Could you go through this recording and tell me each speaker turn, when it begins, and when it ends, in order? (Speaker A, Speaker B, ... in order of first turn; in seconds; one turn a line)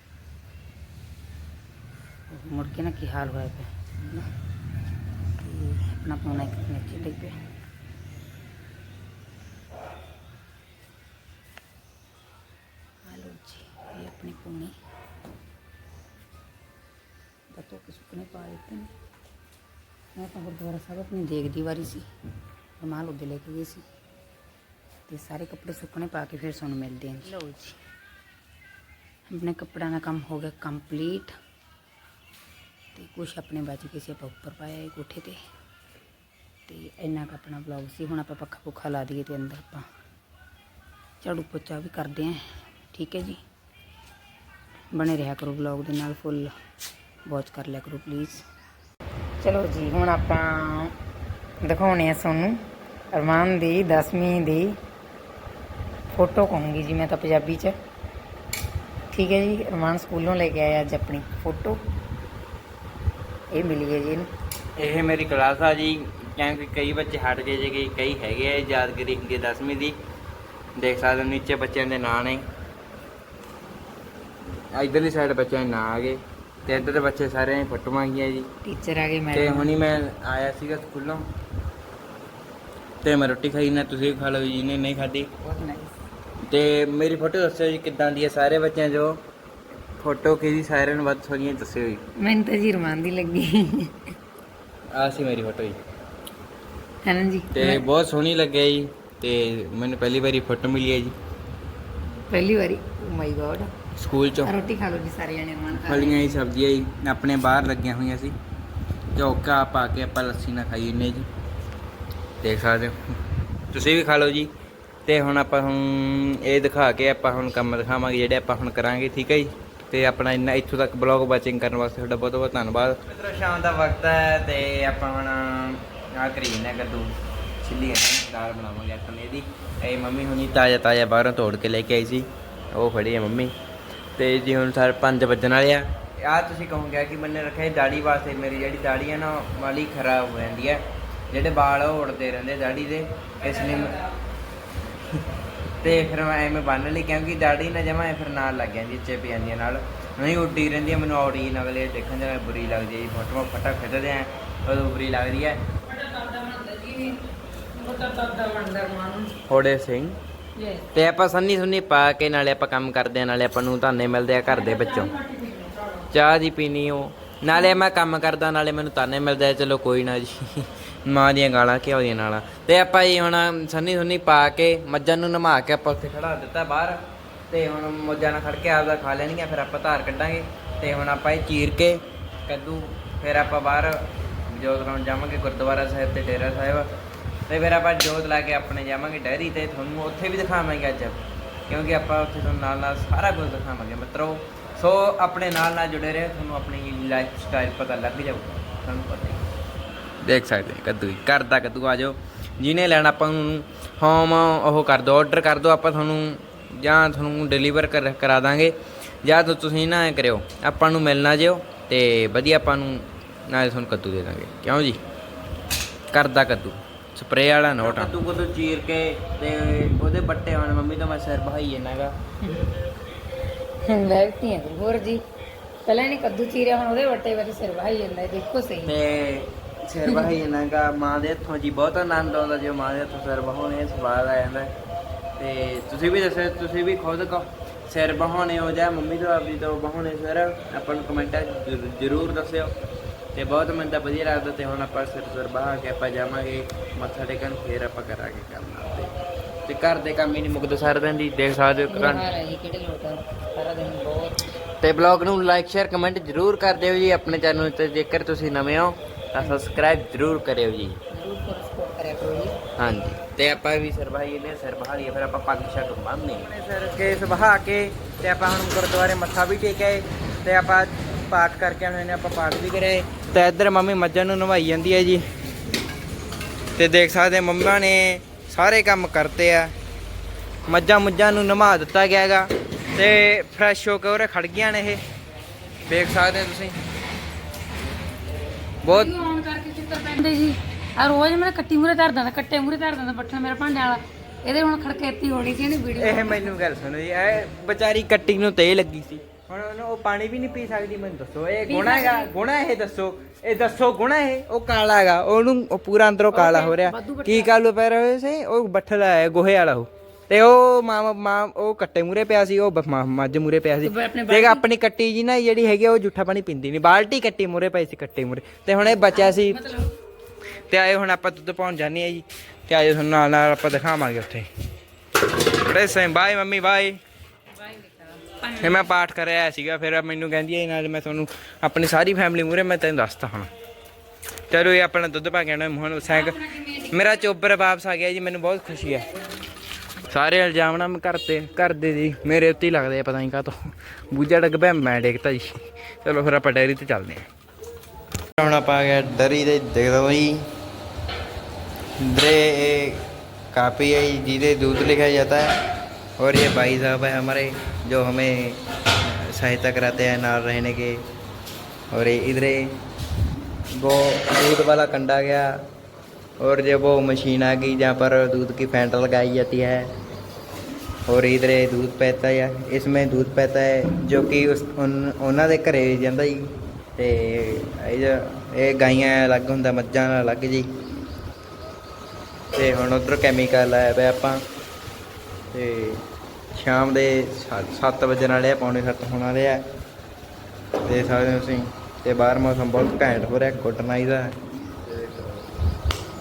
Speaker A: 2.3-4.3
Speaker A: 5.4-7.3
Speaker A: 13.1-14.7
Speaker A: 17.5-18.9
Speaker A: 20.1-22.1
Speaker A: 22.8-23.8
Speaker A: 25.1-27.8
Speaker A: 29.3-31.3
Speaker A: 32.9-35.4
Speaker A: 36.7-39.9
Speaker A: 41.2-42.4
Speaker A: 42.9-43.4
Speaker A: 44.9-46.5
Speaker A: 47.3-48.4
Speaker A: 49.4-50.9
Speaker A: 51.6-52.6
Speaker A: 53.1-54.8
Speaker A: 56.1-57.7
Speaker A: 59.1-61.8
Speaker A: 63.5-64.3
Speaker B: 64.8-69.9
Speaker B: 70.8-72.4
Speaker B: 74.7-78.5
Speaker A: 78.6-79.7
Speaker B: 79.3-81.2
Speaker B: 83.0-85.3
Speaker A: 85.4-86.0
Speaker B: 86.5-89.2
Speaker B: 90.0-92.0
Speaker A: 92.2-94.0
Speaker B: 94.9-95.8
Speaker A: 97.0-97.8
Speaker B: 97.5-101.1
Speaker A: 102.3-103.7
Speaker B: 104.0-104.5
Speaker A: 104.3-106.2
Speaker B: 105.7-108.3
Speaker B: 109.1-111.3
Speaker B: 112.4-113.0
Speaker B: 113.7-114.5
Speaker B: 115.0-133.5
Speaker B: 134.2-144.0
Speaker B: 145.8-155.7
Speaker A: 155.9-159.4
Speaker B: 159.5-160.2
Speaker A: 160.6-160.9
Speaker B: 160.9-165.1
Speaker A: 164.5-166.0
Speaker B: 166.1-186.9
Speaker B: 187.5-199.5
Speaker B: 200.2-215.0
Speaker B: 216.1-222.1
Speaker A: 222.4-222.7
Speaker A: 223.8-225.2
Speaker A: 225.8-228.9
Speaker B: 228.8-234.7
Speaker A: 230.0-230.3
Speaker B: 235.4-242.7
Speaker B: 243.3-249.1
Speaker B: 249.7-252.3
Speaker A: 251.9-254.4
Speaker B: 254.8-261.0
Speaker A: 261.1-262.6
Speaker B: 262.8-275.2
Speaker B: 276.8-279.7
Speaker B: 280.7-285.0
Speaker B: 285.9-286.8
Speaker B: 288.8-289.1
Speaker A: 288.9-296.5
Speaker B: 296.0-319.6
Speaker A: 301.6-302.4
Speaker A: 306.3-307.5
Speaker A: 313.8-314.6
Speaker A: 318.9-319.9
Speaker B: 320.7-324.5
Speaker B: 325.4-327.0
Speaker A: 327.6-328.9
Speaker B: 328.5-333.5
Speaker B: 334.5-339.1
Speaker A: 336.1-337.0
Speaker B: 340.1-343.6
Speaker B: 344.1-347.2
Speaker B: 348.4-350.4
Speaker B: 352.0-355.6
Speaker B: 356.2-361.0
Speaker B: 361.9-362.7
Speaker B: 363.8-365.5
Speaker B: 366.4-369.9
Speaker B: 371.1-380.7
Speaker B: 382.5-384.4
Speaker B: 385.5-386.0
Speaker B: 386.5-389.6
Speaker B: 390.8-394.3
Speaker B: 394.9-395.4